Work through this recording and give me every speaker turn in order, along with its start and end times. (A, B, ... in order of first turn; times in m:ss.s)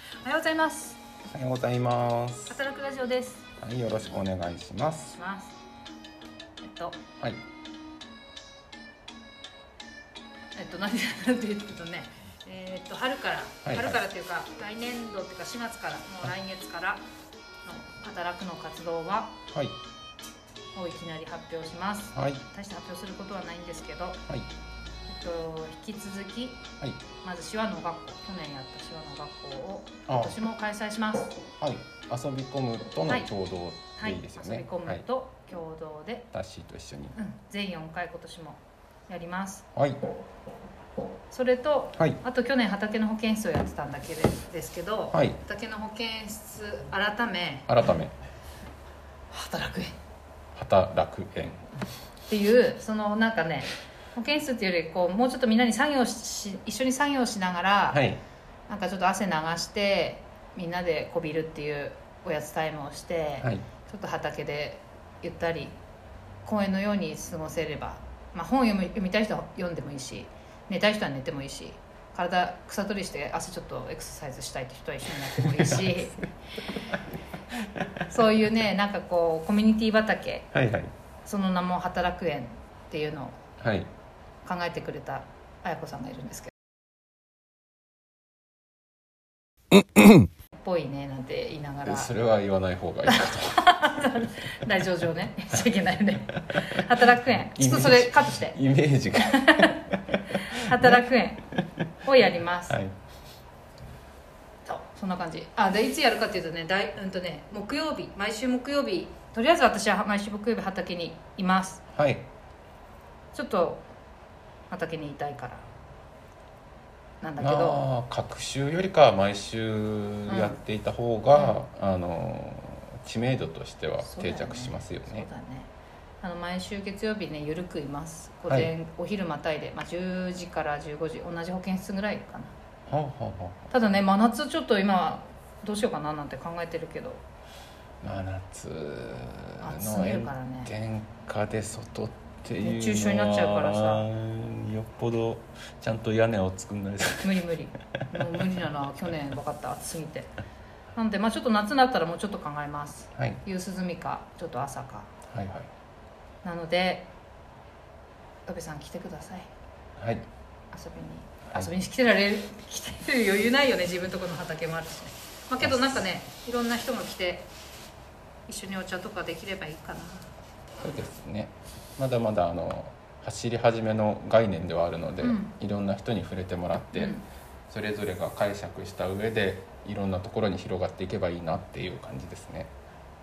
0:00.2-0:01.0 A
0:01.3-0:02.6 B
0:02.5-0:03.5 A
0:03.6-0:05.2 B
0:05.1-0:05.6 A
0:06.6-0:07.0 A
0:10.6-0:17.0 A
0:13.6-0:14.0 B
0:17.6-0:19.4 A
0:20.7-0:24.2 A
0:22.1-0:22.4 B
0:25.1-0:26.6 A
0:27.2-0:31.4 A
0:30.1-0:30.4 B
0:31.6-0:35.0 B
0:34.0-0:36.3 A
0:36.3-0:37.2 B
0:37.2-0:39.6 A
0:39.8-0:40.0 B
0:41.3-0:47.7 A
0:45.1-0:45.4 B
0:47.7-0:48.1 B
0:49.3-0:50.0 A
0:50.6-0:51.7 B
0:52.3-0:58.1 A
0:57.9-0:58.2 B
0:58.7-1:05.8 A
1:06.4-1:16.2 A
1:15.4-1:16.0 B
1:17.6-1:18.1 B
1:18.1-1:20.5 A
1:20.5-1:20.9 B
1:21.2-1:23.4 A
1:23.6-1:23.9 B
1:24.4-1:26.5 A
1:30.6-1:32.1 A
1:31.8-1:33.7 B
1:33.1-1:38.6 A
1:37.6-1:41.0 B
1:39.2-1:41.5 A
1:42.0-1:42.8 A
1:42.7-1:43.0 B
1:44.7-1:51.8 A
1:51.9-1:52.3 B
1:53.3-1:53.9 A
1:54.7-1:55.6 A
1:57.2-1:57.8 A
1:57.4-2:05.3 B
2:00.3-2:00.6 A
2:01.3-2:01.6 A
2:04.0-2:12.5 A
2:12.9-2:13.7 B
2:13.7-2:17.2 A
2:18.0-2:27.3 B
2:19.6-2:20.7 A
2:22.6-2:24.1 A
2:27.2-2:30.3 A
2:31.0-2:35.1 A
2:35.3-2:35.7 B
2:36.4-2:37.1 A
2:38.5-2:39.5 A
2:40.0-2:40.2 B
2:40.7-2:47.5 A
2:45.6-2:46.0 B
2:48.5-2:50.3 A
2:50.8-2:57.2 B
2:55.2-2:55.5 A
2:57.0-2:57.2 A
2:57.7-3:02.7 B